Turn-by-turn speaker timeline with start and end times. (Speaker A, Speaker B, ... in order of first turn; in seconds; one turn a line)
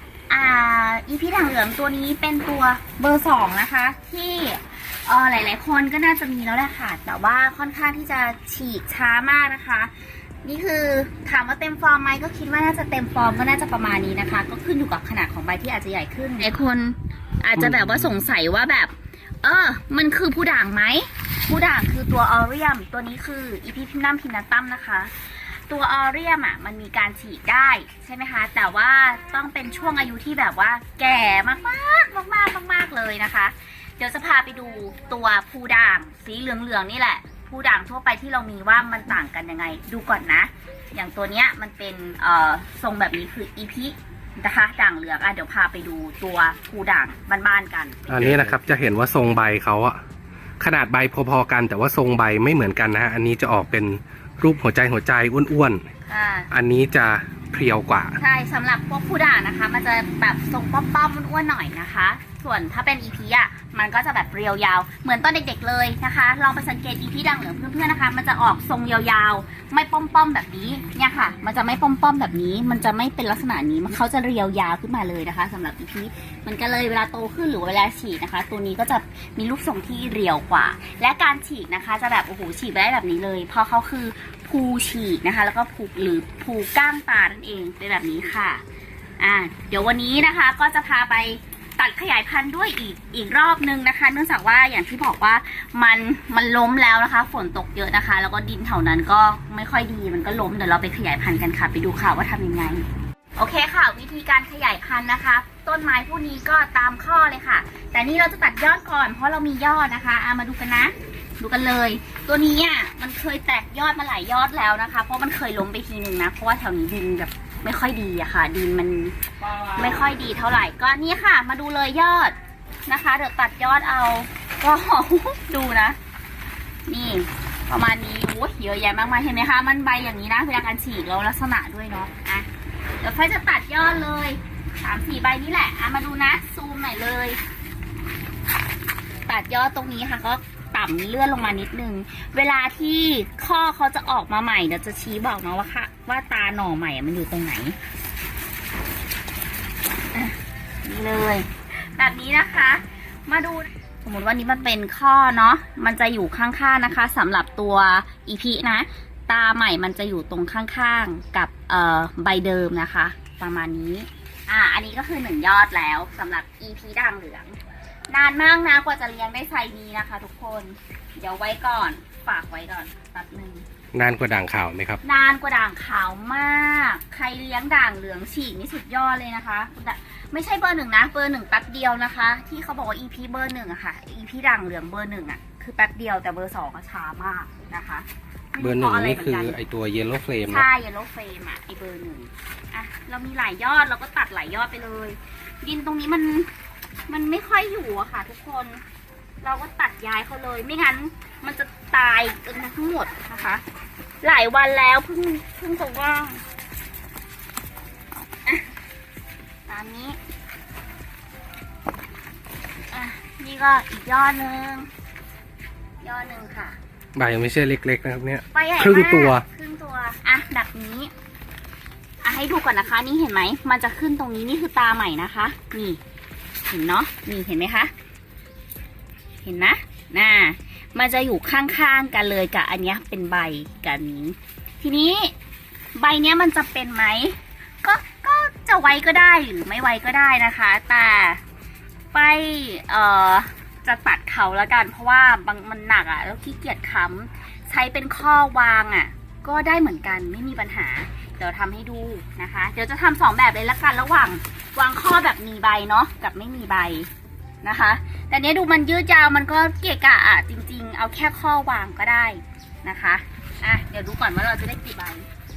Speaker A: 0.3-9.9
Speaker A: 10.4-48.1
Speaker B: 17.6-18.2
Speaker B: 48.1-50.0
Speaker B: 50.6-55.8
Speaker A: 56.1-56.5
Speaker B: 56.5-58.2
Speaker A: 58.2-88.6
Speaker A: 89.2-126.0
Speaker A: 126.9-132.5
Speaker A: 133.0-137.4
Speaker A: 139.3-147.8
Speaker A: 150.1-167.6
Speaker A: 168.1-173.6
Speaker B: 173.9-175.0
Speaker A: 175.0-189.6
Speaker B: 188.6-190.7
Speaker A: 190.4-196.5
Speaker A: 197.1-198.8
Speaker A: 199.4-203.6
Speaker A: 204.2-206.4
Speaker A: 209.7-210.2
Speaker A: 212.9-214.9
Speaker A: 216.0-216.8
Speaker B: 217.2-219.4
Speaker A: 218.5-221.1
Speaker A: 222.2-226.0
Speaker A: 226.7-227.9
Speaker A: 229.4-235.3
Speaker A: 235.9-241.4
Speaker A: 242.1-257.1
Speaker A: 257.6-265.3